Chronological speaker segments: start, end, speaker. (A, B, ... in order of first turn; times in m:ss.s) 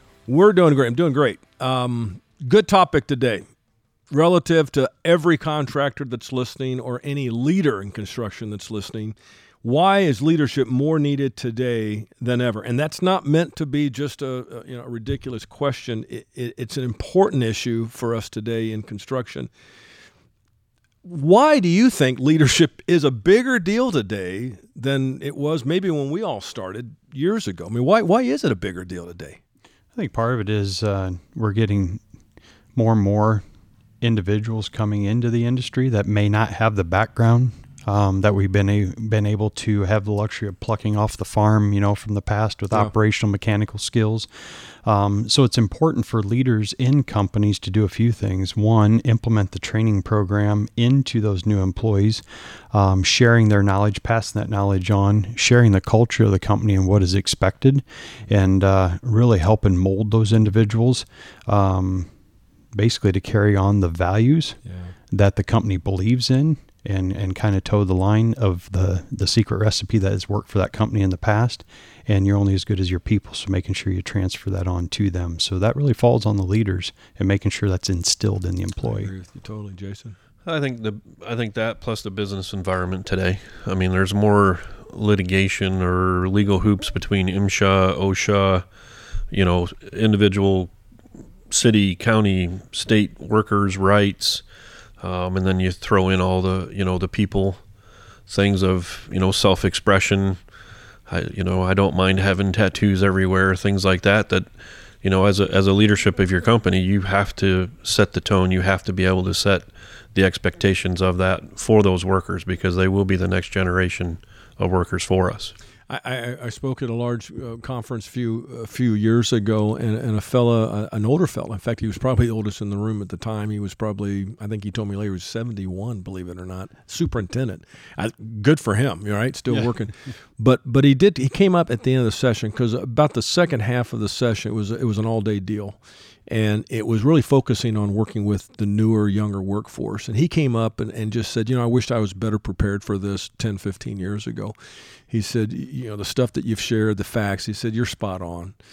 0:00.3-0:03.4 A
0:04.1-0:19.5 A
0:21.0-0:29.4 A
0:29.9-0:32.0 B
0:32.7-0:33.4 B
0:34.0-0:44.3 B
0:44.8-1:02.1 B
1:02.7-1:04.6 B
1:04.7-1:04.9 A
1:05.1-1:19.1 B
1:18.8-1:20.2 A
1:20.4-1:28.6 C
1:29.3-1:30.7 C
1:31.5-1:34.4 C
1:35.0-1:37.6 C
1:38.3-1:40.4 C
1:41.1-1:44.5 C
1:45.0-1:55.5 C
1:55.9-2:24.5 A
2:25.1-2:28.6 A